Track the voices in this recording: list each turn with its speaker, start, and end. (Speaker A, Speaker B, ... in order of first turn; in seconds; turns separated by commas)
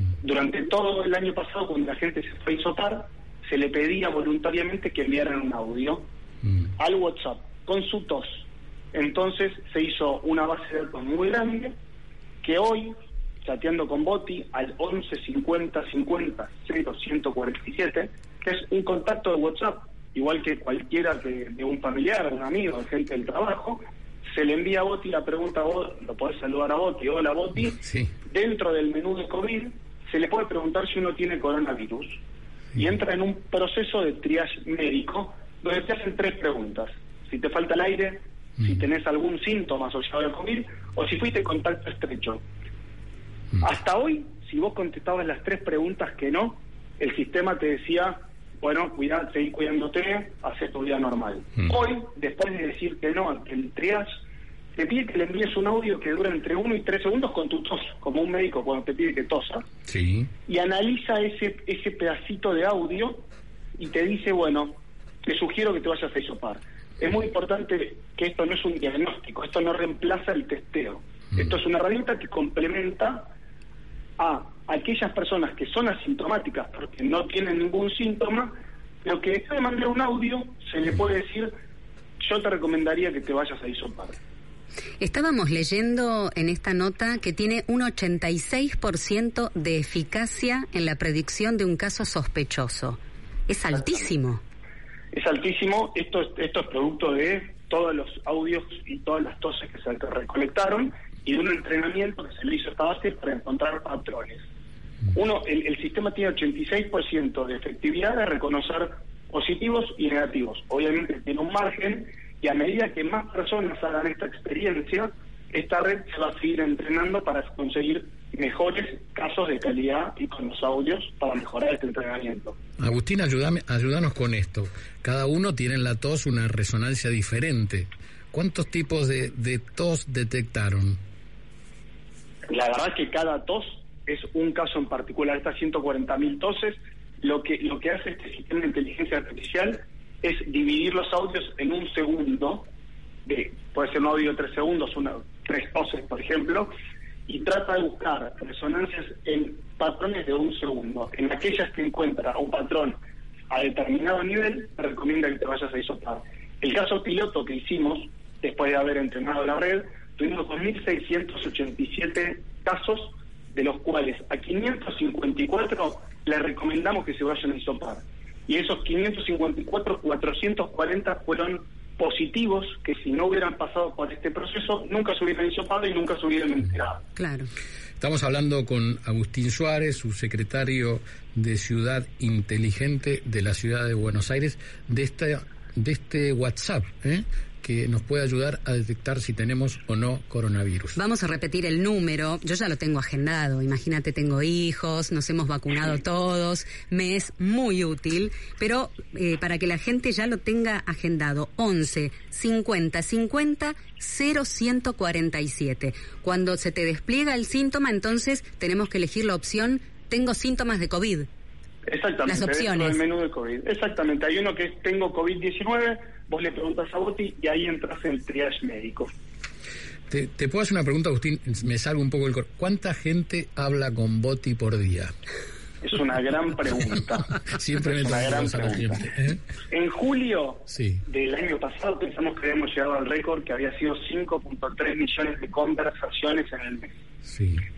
Speaker A: 0.2-6.1, Speaker A: 6.8-11.7, Speaker A: 12.4-32.2, Speaker B: 27.8-28.1, Speaker A: 32.8-42.4, Speaker A: 43.6-54.1, Speaker A: 54.7-59.6, Speaker B: 59.9-60.3, Speaker A: 60.5-63.2, Speaker A: 63.8-73.3, Speaker A: 74.2-81.5, Speaker A: 82.2-84.2, Speaker C: 85.0-94.4, Speaker A: 95.1-104.4, Speaker A: 105.1-122.5, Speaker B: 122.8-131.0, Speaker A: 132.5-142.7, Speaker A: 143.2-146.7, Speaker A: 147.3-152.9, Speaker A: 153.5-177.0, Speaker C: 177.2-177.5, Speaker B: 178.0-191.0, Speaker C: 190.9-211.3, Speaker A: 211.8-219.1, Speaker C: 212.3-213.0, Speaker B: 220.1-225.1, Speaker A: 225.8-229.1, Speaker B: 227.5-229.4, Speaker A: 229.7-236.9, Speaker B: 230.7-231.0, Speaker B: 237.2-237.6